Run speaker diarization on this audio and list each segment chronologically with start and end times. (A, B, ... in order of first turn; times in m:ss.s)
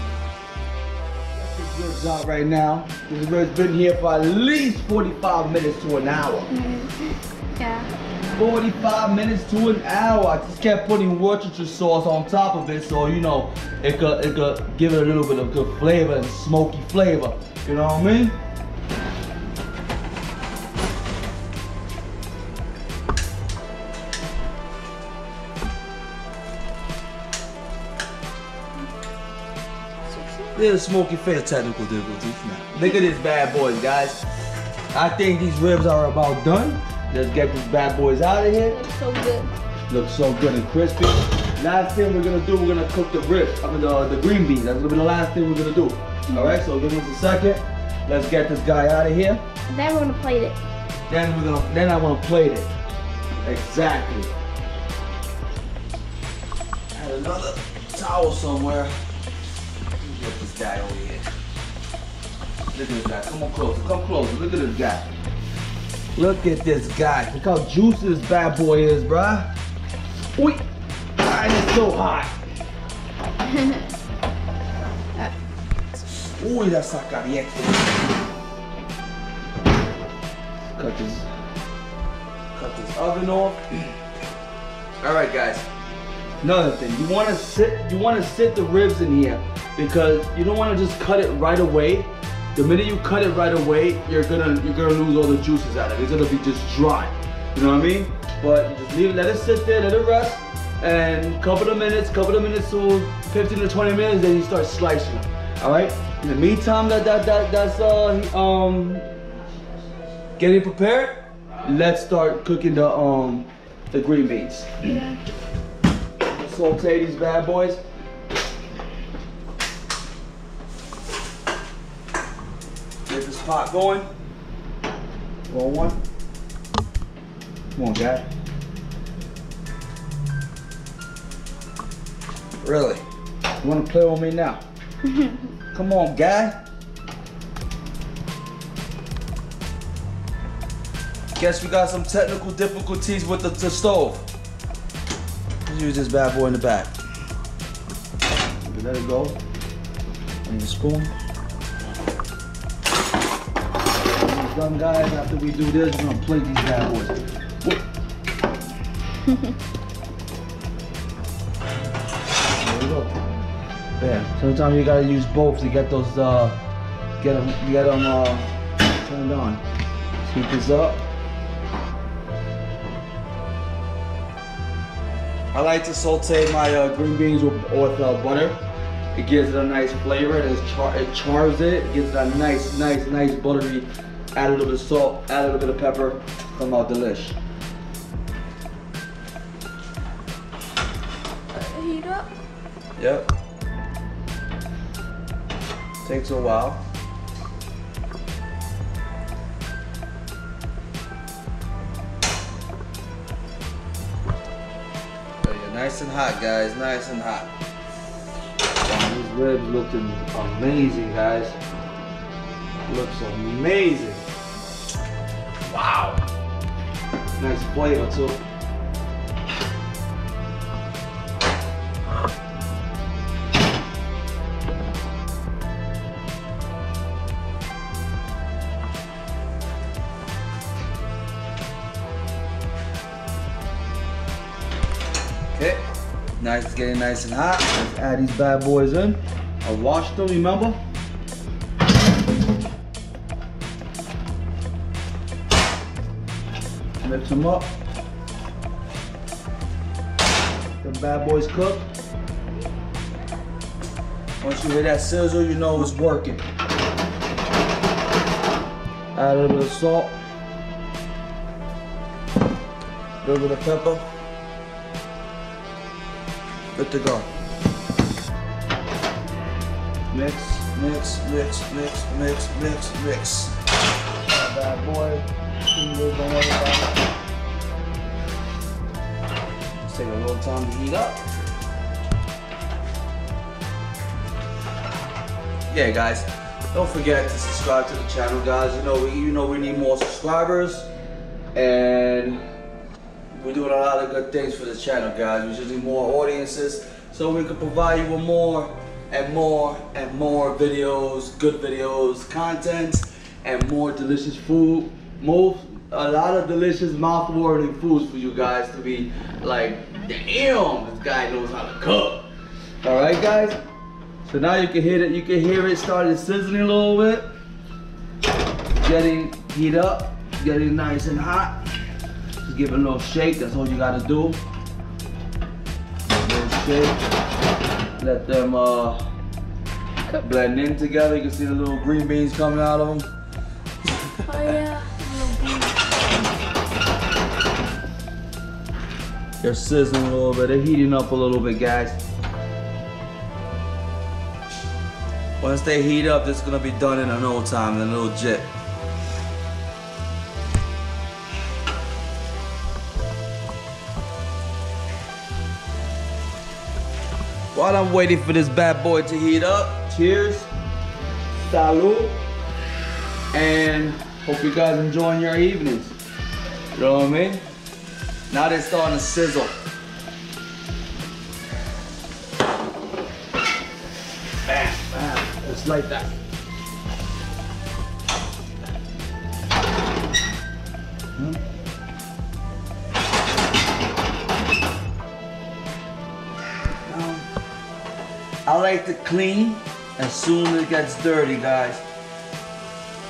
0:01.4-0:06.5 A
0:06.5-0:07.9 B
0:08.4-0:18.4 A
0:30.0-0:30.6 B
0:30.5-0:34.2 A
0:34.9-0:38.8 A
0:38.7-0:39.5 B
0:39.9-0:49.4 A
0:46.3-0:46.6 B
0:49.7-0:50.6 B
0:51.1-0:52.7 A
0:53.4-0:54.3 A
0:56.9-0:58.9 A
1:00.0-1:01.3 A
1:02.7-1:05.1 A
1:06.2-1:09.5 A
1:10.4-1:10.6 A
1:11.2-1:12.3 A
1:13.4-1:13.8 B
1:16.2-1:18.1 A
1:20.8-1:21.3 A
1:22.5-1:23.9 A
1:25.0-1:25.6 A
1:26.4-1:49.1 A
1:50.4-1:54.9 A
1:54.8-1:55.2 B
1:56.2-1:57.8 A
2:03.1-2:04.1 A
2:05.5-2:06.0 A
2:07.8-2:08.3 A
2:12.6-2:13.0 A
2:13.6-2:14.6 A
2:15.0-2:15.5 B
2:15.7-2:16.6 A
2:21.4-2:24.2 A
2:25.6-2:26.9 A
2:28.6-2:29.4 A
2:30.4-2:31.1 A
2:34.2-2:37.8 A
2:42.6-2:43.1 A
2:44.0-2:46.6 A
2:47.2-2:49.6 A
2:50.2-2:51.0 A
2:55.5-2:58.6 A
2:59.1-3:07.4 A
3:11.5-3:12.3 B
3:13.0-3:13.3 A
3:16.0-3:16.8 A
3:25.4-3:27.5 A
3:28.8-3:31.6 A
3:32.9-3:34.2 A
3:35.7-3:36.2 A
3:37.4-3:38.4 A
3:55.5-3:55.8 A
3:56.4-4:00.8 A
4:07.0-4:07.7 A
4:10.8-4:11.8 A
4:14.4-4:16.4 A
4:19.1-4:20.1 A
4:23.2-4:24.0 A
4:26.7-4:27.3 A
4:30.1-4:33.5 A
4:34.2-4:37.0 A
4:39.8-4:41.2 A
4:45.7-4:50.9 A
4:51.5-4:52.4 A
4:53.3-5:12.3 A
5:12.8-5:13.6 A
5:14.2-5:17.3 A
5:18.8-5:21.6 A
5:22.4-5:24.4 A
5:26.1-5:27.0 A
5:28.0-5:29.0 A
5:30.2-5:33.1 A
5:34.2-5:36.0 B
5:39.4-5:42.0 A
5:45.4-5:48.5 A
5:57.5-6:00.5 A
6:01.4-6:02.2 A
6:03.3-6:06.0 A
6:06.7-6:07.4 A
6:08.3-6:09.5 A
6:14.5-6:16.1 A
6:26.9-6:27.2 A
6:28.4-6:31.8 A